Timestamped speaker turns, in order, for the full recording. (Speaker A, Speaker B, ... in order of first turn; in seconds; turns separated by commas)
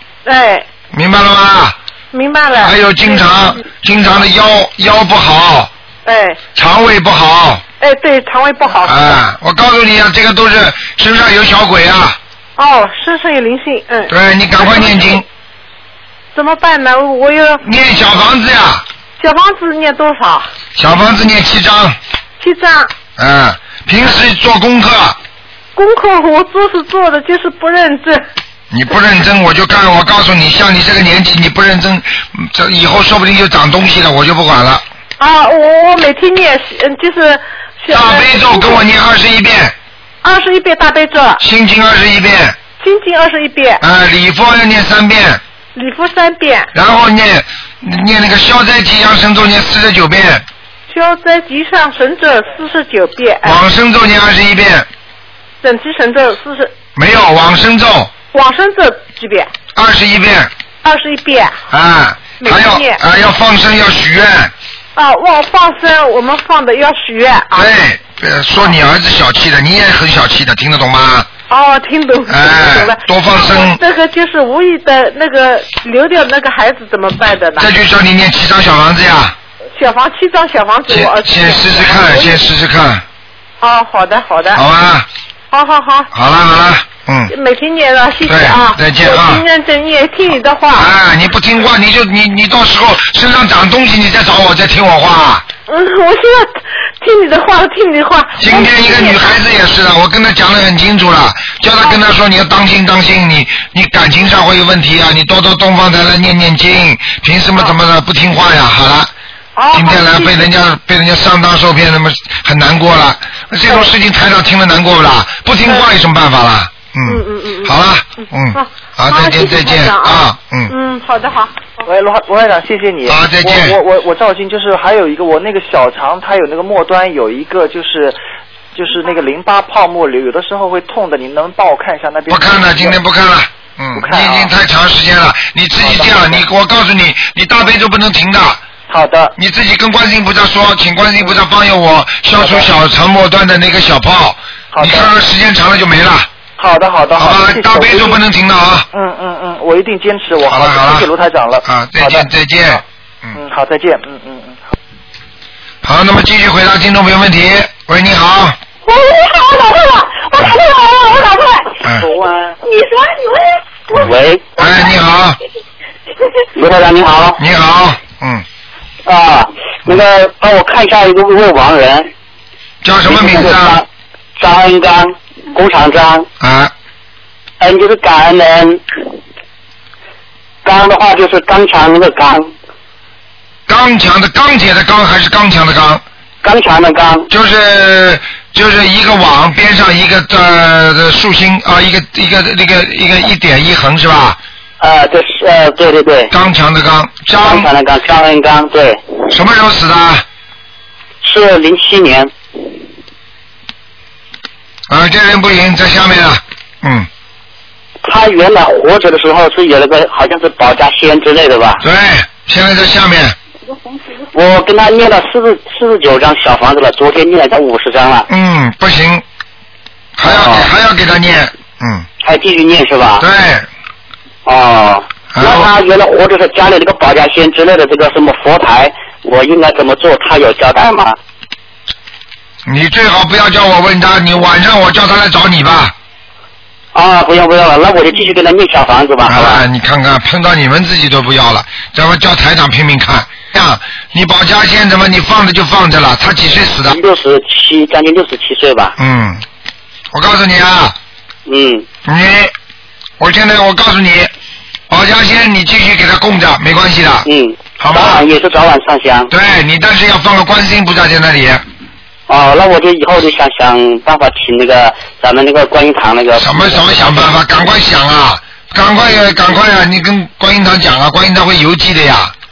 Speaker A: 0.2-0.7, Speaker B: 0.9-1.8, Speaker A: 2.1-3.3, Speaker B: 2.6-5.7, Speaker A: 6.1-6.4, Speaker B: 6.5-7.6, Speaker A: 7.8-9.2, Speaker B: 8.8-12.2, Speaker A: 12.6-15.2, Speaker B: 14.1-15.2, Speaker A: 16.3-17.6, Speaker B: 17.6-18.8, Speaker A: 19.2-20.5, Speaker B: 20.8-22.0, Speaker A: 22.4-22.9, Speaker B: 23.2-25.2, Speaker A: 25.8-28.3, Speaker B: 28.7-34.8, Speaker A: 35.2-38.8, Speaker B: 37.9-39.8, Speaker A: 40.2-41.4, Speaker B: 41.4-42.6, Speaker A: 42.8-43.8, Speaker B: 43.8-45.4, Speaker A: 45.8-46.7, Speaker B: 46.7-50.5, Speaker A: 50.9-53.6, Speaker B: 53.4-54.9, Speaker A: 55.6-56.7, Speaker B: 57.0-58.1, Speaker A: 58.3-59.5, Speaker B: 59.8-60.5, Speaker A: 60.8-61.6, Speaker B: 61.7-64.5, Speaker A: 62.4-63.0, Speaker A: 65.0-67.7, Speaker B: 67.5-71.3, Speaker A: 71.5-77.7, Speaker B: 72.3-73.8, Speaker B: 77.6-79.4, Speaker A: 79.8-82.4, Speaker B: 80.9-83.0, Speaker A: 83.6-84.6, Speaker B: 84.5-85.1, Speaker A: 85.5-86.1, Speaker B: 86.1-87.3, Speaker A: 87.3-90.9, Speaker B: 88.2-89.4, Speaker B: 90.7-95.5, Speaker A: 95.7-99.4, Speaker B: 98.4-109.1, Speaker A: 109.6-110.4, Speaker B: 109.7-120.7, Speaker A: 115.7-115.9, Speaker A: 117.1-121.8, Speaker C: 121.8-128.2, Speaker B: 123.1-123.8, Speaker C: 128.8-133.0, Speaker B: 132.3-138.6, Speaker C: 133.9-134.5, Speaker C: 135.8-136.4, Speaker C: 138.9-139.3, Speaker B: 139.4-146.3, Speaker C: 142.4-142.7, Speaker C: 144.7-145.1, Speaker C: 146.6-148.2, Speaker B: 147.2-148.9, Speaker C: 148.9-152.8, Speaker B: 150.5-151.1, Speaker B: 151.6-153.4, Speaker C: 153.3-154.7, Speaker B: 155.8-158.6, Speaker D: 158.9-161.8, Speaker E: 162.0-162.6, Speaker D: 162.7-163.5, Speaker E: 163.9-164.5, Speaker B: 164.6-165.4, Speaker E: 166.6-167.4, Speaker B: 167.4-168.4, Speaker E: 169.1-172.1, Speaker B: 172.8-173.8, Speaker E: 173.1-173.9, Speaker E: 174.4-176.3, Speaker B: 176.4-176.7, Speaker E: 177.6-178.8, Speaker E: 180.7-182.5, Speaker B: 183.7-186.0, Speaker E: 186.4-187.3, Speaker B: 187.3-194.4, Speaker E: 194.8-196.3, Speaker B: 196.3-197.7, Speaker E: 197.4-199.2, Speaker B: 199.3-200.2, Speaker E: 201.2-202.3, Speaker B: 204.9-207.1, Speaker E: 208.0-211.8, Speaker B: 211.8-213.4, Speaker E: 214.3-218.3, Speaker B: 218.3-219.2, Speaker B: 220.2-222.1, Speaker E: 220.2-220.7, Speaker E: 222.2-223.2, Speaker B: 223.2-223.7, Speaker E: 224.5-231.2, Speaker B: 225.3-225.7, Speaker B: 232.7-235.9, Speaker E: 236.9-239.6, Speaker B: 239.3-247.0, Speaker E: 246.9-249.0, Speaker B: 249.0-249.4, Speaker B: 250.1-251.0, Speaker E: 251.5-251.9, Speaker B: 252.1-252.5, Speaker B: 253.2-254.3, Speaker B: 254.9-257.3, Speaker E: 257.3-259.3, Speaker B: 257.8-258.2, Speaker B: 259.3-261.6, Speaker E: 262.3-267.4, Speaker B: 266.4-272.3